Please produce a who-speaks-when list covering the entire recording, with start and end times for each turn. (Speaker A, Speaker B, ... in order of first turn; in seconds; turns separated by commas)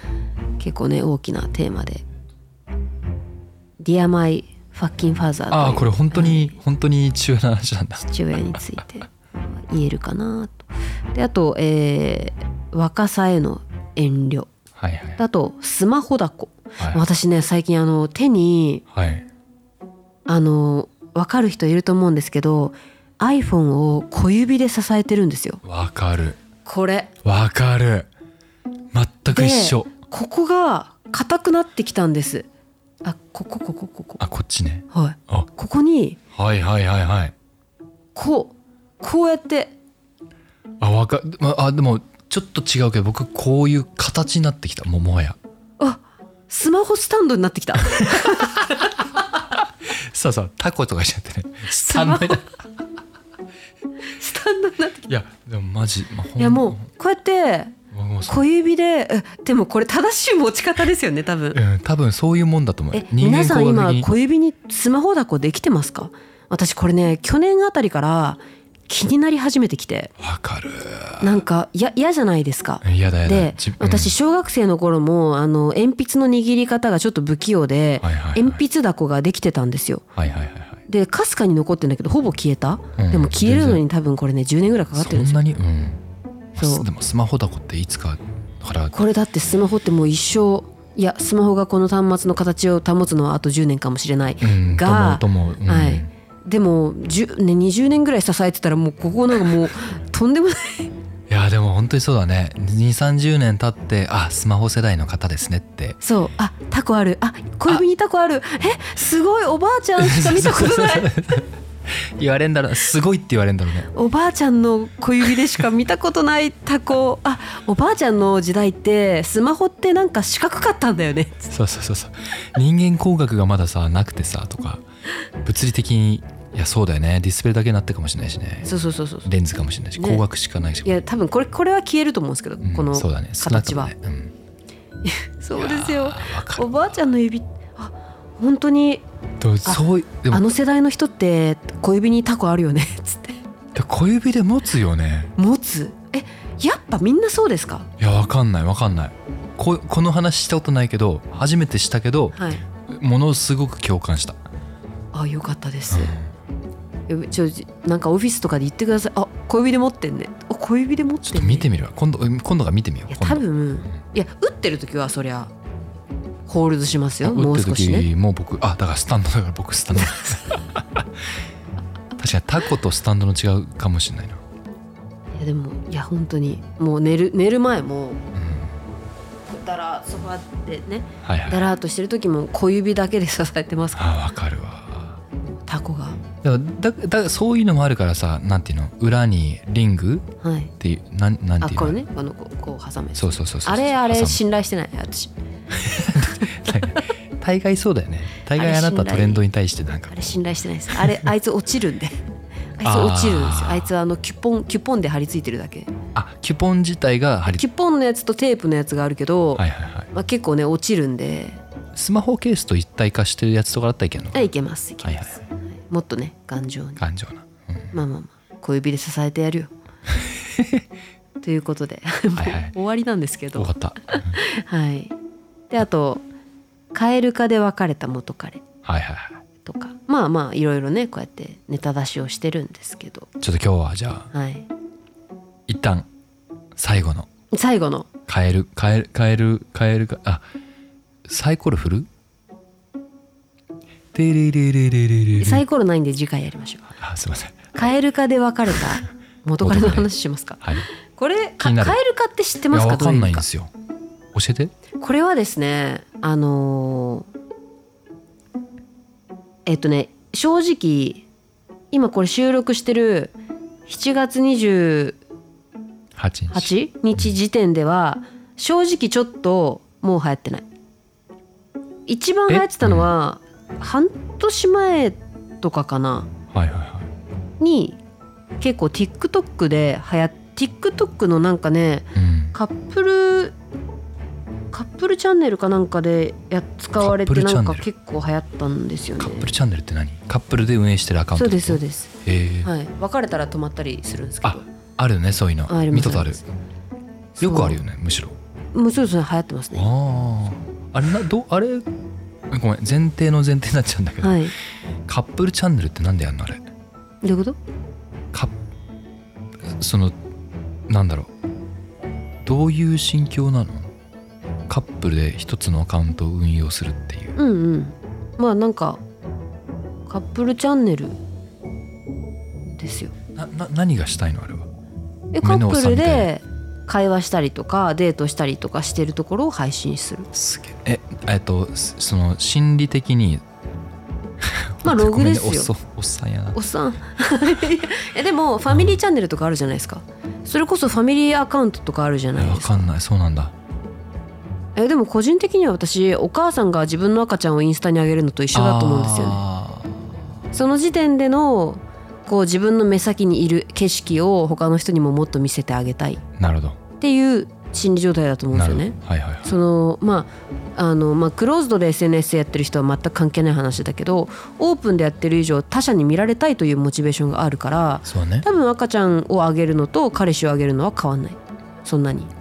Speaker A: 0.6-2.0, Speaker A: 3.8-6.6, Speaker B: 5.5-8.0, Speaker A: 8.0-14.5, Speaker B: 14.8-15.2, Speaker A: 15.2-18.8, Speaker B: 18.9-19.2, Speaker A: 20.3-25.6, Speaker B: 25.6-26.4, Speaker A: 26.6-27.1, Speaker B: 27.2-28.1, Speaker B: 28.9-29.9, Speaker A: 29.3-32.5, Speaker A: 33.0-34.2, Speaker B: 34.2-35.5, Speaker A: 34.9-36.2, Speaker B: 36.3-37.3, Speaker A: 38.1-39.7, Speaker B: 40.8-45.4, Speaker A: 45.8-49.0, Speaker B: 48.0-48.8, Speaker B: 49.5-52.5, Speaker A: 51.7-52.5, Speaker A: 54.0-55.1, Speaker B: 55.0-56.8, Speaker A: 56.4-57.8, Speaker B: 57.9-58.4, Speaker A: 58.3-61.6, Speaker B: 61.5-64.1, Speaker A: 62.9-70.1, Speaker B: 70.2-71.4, Speaker A: 71.2-80.0, Speaker B: 72.8-74.1, Speaker B: 78.0-78.6, Speaker B: 80.2-80.8, Speaker A: 80.9-85.4, Speaker B: 83.0-83.8, Speaker B: 84.9-86.0, Speaker B: 86.5-89.0, Speaker A: 86.6-86.8, Speaker A: 88.9-100.9, Speaker B: 94.4-96.1, Speaker B: 101.3-106.0, Speaker A: 106.0-111.1, Speaker B: 110.0-113.9, Speaker A: 113.9-121.5, Speaker B: 121.5-124.8, Speaker B: 125.4-128.7, Speaker A: 128.6-129.3, Speaker B: 129.2-131.0, Speaker A: 129.9-130.2, Speaker A: 130.8-133.9, Speaker B: 132.6-134.3, Speaker A: 135.0-139.0, Speaker B: 135.5-136.9, Speaker B: 139.4-140.4, Speaker A: 139.6-143.4, Speaker B: 143.7-145.3, Speaker A: 145.4-147.9, Speaker B: 148.0-154.4, Speaker A: 152.3-152.7, Speaker A: 155.1-156.2, Speaker B: 155.9-156.3, Speaker A: 157.1-161.7, Speaker B: 161.2-163.4, Speaker A: 163.1-165.5, Speaker A: 166.5-168.1, Speaker B: 167.2-171.2, Speaker A: 170.1-170.4, Speaker B: 172.2-174.4, Speaker A: 175.3-178.2, Speaker B: 178.3-178.8, Speaker A: 179.5-184.0, Speaker B: 181.2-181.6, Speaker B: 183.9-185.2, Speaker A: 185.6-186.2, Speaker B: 186.4-190.2, Speaker A: 190.4-190.7, Speaker B: 190.8-192.0, Speaker A: 191.6-195.3, Speaker B: 193.1-194.4, Speaker B: 195.7-201.3, Speaker A: 196.2-197.1, Speaker A: 198.5-199.4, Speaker A: 200.1-202.2, Speaker A: 202.8-205.9, Speaker B: 202.8-203.9, Speaker B: 206.1-207.7, Speaker A: 207.4-211.6, Speaker B: 209.6-210.1, Speaker B: 211.9-214.5, Speaker A: 214.3-217.0, Speaker B: 215.0-215.4, Speaker B: 217.0-217.9, Speaker A: 217.9-219.7, Speaker B: 220.2-220.8, Speaker A: 221.4-225.1, Speaker B: 222.3-222.7, Speaker B: 223.5-224.4, Speaker A: 225.7-226.2, Speaker A: 226.9-228.6, Speaker B: 228.8-229.4, Speaker A: 229.6-233.3, Speaker B: 233.4-234.3, Speaker A: 234.3-234.7, Speaker B: 235.7-236.1, Speaker B: 236.7-237.3, Speaker A: 237.5-238.1, Speaker B: 238.3-240.4, Speaker B: 241.2-242.1, Speaker B: 244.1-245.6, Speaker A: 245.4-246.9, Speaker B: 247.0-247.7, Speaker A: 247.7-253.4, Speaker B: 249.6-250.1, Speaker B: 250.6-250.9, Speaker B: 251.6-252.0, Speaker B: 252.7-253.7, Speaker B: 254.3-254.7, Speaker A: 255.0-257.3, Speaker A: 259.6-261.2, Speaker A: 261.9-263.3, Speaker A: 263.9-265.2, Speaker B: 266.1-267.3, Speaker A: 266.5-270.6, Speaker A: 272.1-276.3, Speaker B: 272.5-273.1, Speaker B: 276.5-277.1, Speaker A: 277.6-278.0, Speaker A: 278.6-283.6, Speaker B: 282.1-282.5, Speaker A: 284.7-289.5, Speaker B: 286.9-287.9, Speaker B: 289.2-292.7, Speaker A: 291.3-292.1, Speaker A: 292.6-294.6, Speaker B: 294.4-296.4, Speaker A: 295.7-296.4, Speaker A: 297.4-297.8, Speaker B: 297.4-298.4, Speaker A: 298.7-299.9, Speaker B: 299.7-301.9, Speaker B: 302.5-304.5, Speaker A: 304.2-304.5, Speaker B: 305.1-306.6, Speaker A: 307.2-307.6, Speaker B: 309.6-310.1, Speaker B: 310.9-311.3, Speaker B: 312.4-313.9, Speaker B: 314.7-317.4, Speaker A: 317.4-319.0, Speaker A: 320.1-321.1, Speaker A: 322.8-323.1, Speaker B: 323.3-324.7, Speaker A: 325.3-330.3, Speaker B: 325.4-326.3, Speaker B: 330.3-333.4, Speaker B: 334.4-336.6, Speaker A: 334.8-335.7, Speaker A: 336.5-342.9, Speaker B: 338.7-339.0, Speaker B: 342.4-343.5, Speaker A: 344.8-349.4, Speaker B: 348.5-350.1, Speaker A: 350.5-356.2, Speaker B: 356.4-356.8, Speaker A: 357.0-372.3, Speaker B: 358.5-359.5, Speaker B: 368.0-368.4